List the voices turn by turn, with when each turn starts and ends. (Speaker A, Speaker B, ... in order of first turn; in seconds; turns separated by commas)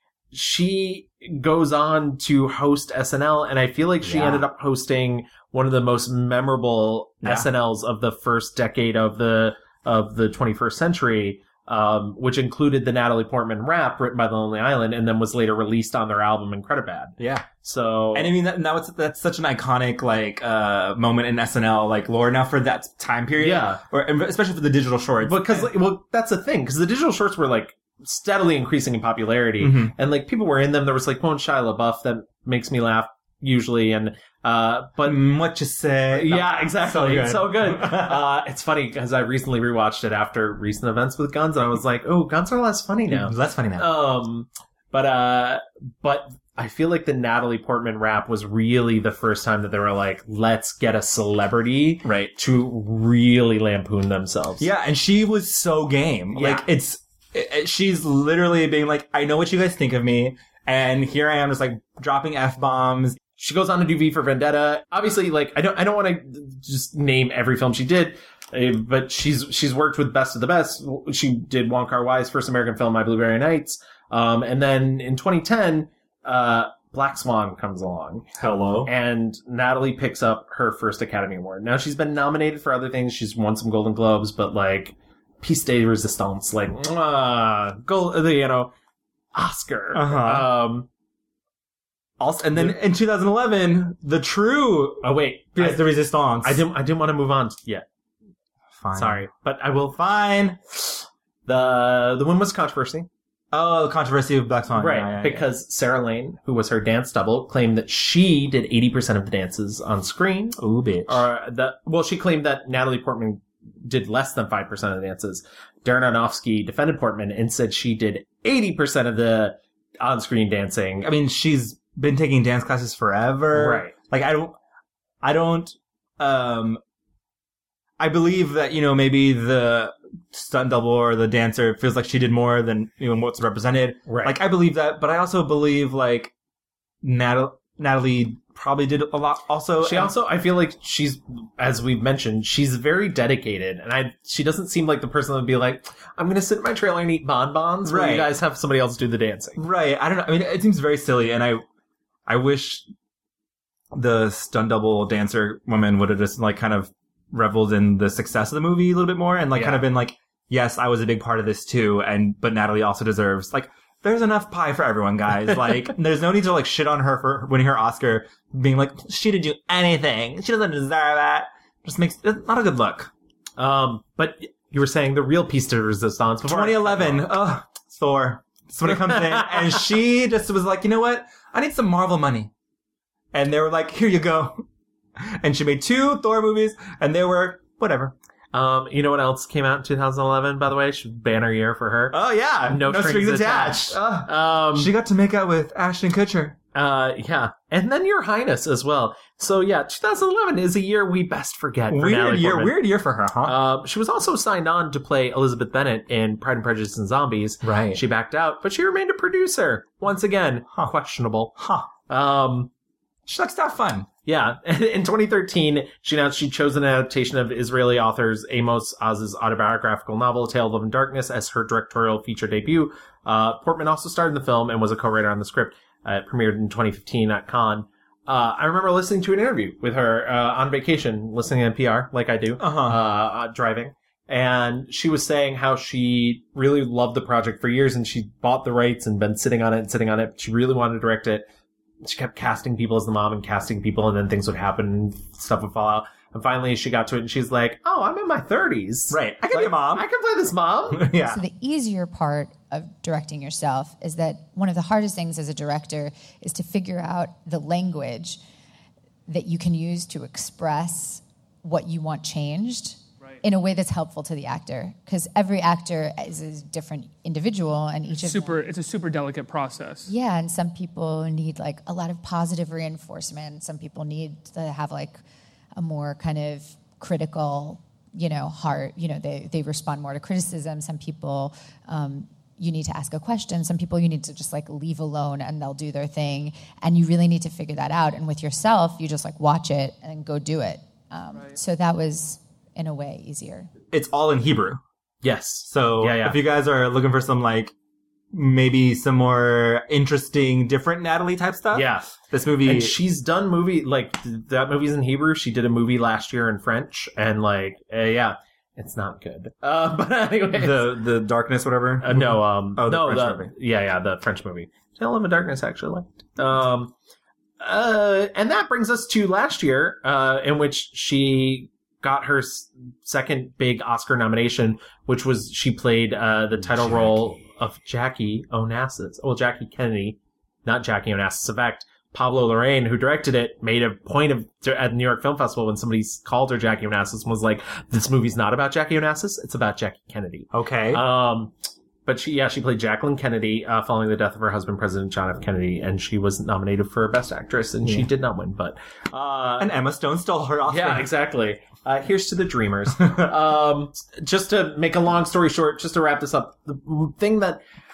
Speaker A: 0.3-18.3, Speaker B: 4.0-4.5, Speaker B: 7.2-7.5, Speaker B: 17.2-17.5, Speaker B: 18.1-25.7, Speaker A: 23.4-23.8, Speaker A: 25.2-35.3, Speaker B: 29.6-29.9, Speaker B: 35.0-38.2, Speaker A: 36.1-54.7, Speaker B: 43.1-43.9, Speaker B: 52.0-52.3, Speaker B: 54.6-63.2, Speaker A: 56.3-56.6, Speaker A: 63.4-78.3, Speaker B: 78.4-78.9, Speaker A: 78.8-88.7, Speaker A: 89.3-90.9, Speaker B: 89.9-90.5, Speaker B: 92.2-96.6, Speaker A: 95.0-97.8, Speaker B: 98.8-99.2, Speaker A: 98.9-100.0, Speaker B: 99.9-100.6, Speaker A: 101.5-103.1, Speaker B: 103.5-105.5, Speaker A: 104.7-121.1, Speaker B: 110.6-111.2, Speaker B: 121.0-124.5, Speaker A: 123.5-123.9, Speaker B: 125.2-126.8, Speaker B: 128.0-136.3, Speaker A: 134.1-134.4, Speaker B: 137.0-140.1, Speaker A: 139.8-149.6, Speaker B: 147.8-148.3, Speaker B: 149.6-151.6, Speaker B: 152.3-152.9, Speaker B: 153.9-173.1, Speaker A: 159.5-159.8, Speaker A: 173.6-177.3, Speaker B: 176.4-182.5, Speaker A: 178.9-179.8, Speaker B: 183.3-184.6, Speaker B: 185.2-188.1, Speaker A: 188.5-194.9, Speaker B: 192.1-196.6, Speaker A: 196.7-202.8, Speaker B: 201.9-203.6, Speaker A: 203.4-211.5, Speaker B: 207.6-208.0, Speaker B: 211.6-211.9, Speaker A: 212.1-212.7, Speaker B: 213.2-214.1, Speaker A: 214.2-241.5, Speaker B: 232.6-233.0, Speaker A: 242.0-251.1, Speaker B: 249.1-250.1, Speaker B: 250.9-251.4, Speaker C: 251.3-258.4, Speaker C: 259.3-268.6, Speaker D: 268.1-270.1, Speaker C: 270.1-275.2, Speaker C: 275.8-293.7, Speaker B: 293.9-294.8, Speaker A: 295.2-296.4, Speaker B: 295.7-297.7, Speaker B: 298.3-302.9, Speaker A: 301.7-302.1, Speaker A: 302.6-311.0, Speaker B: 310.5-313.5, Speaker A: 312.0-316.9, Speaker A: 317.6-341.5, Speaker B: 326.8-327.1, Speaker B: 340.5-341.0, Speaker A: 342.1-349.7, Speaker B: 349.6-351.1, Speaker A: 350.7-357.6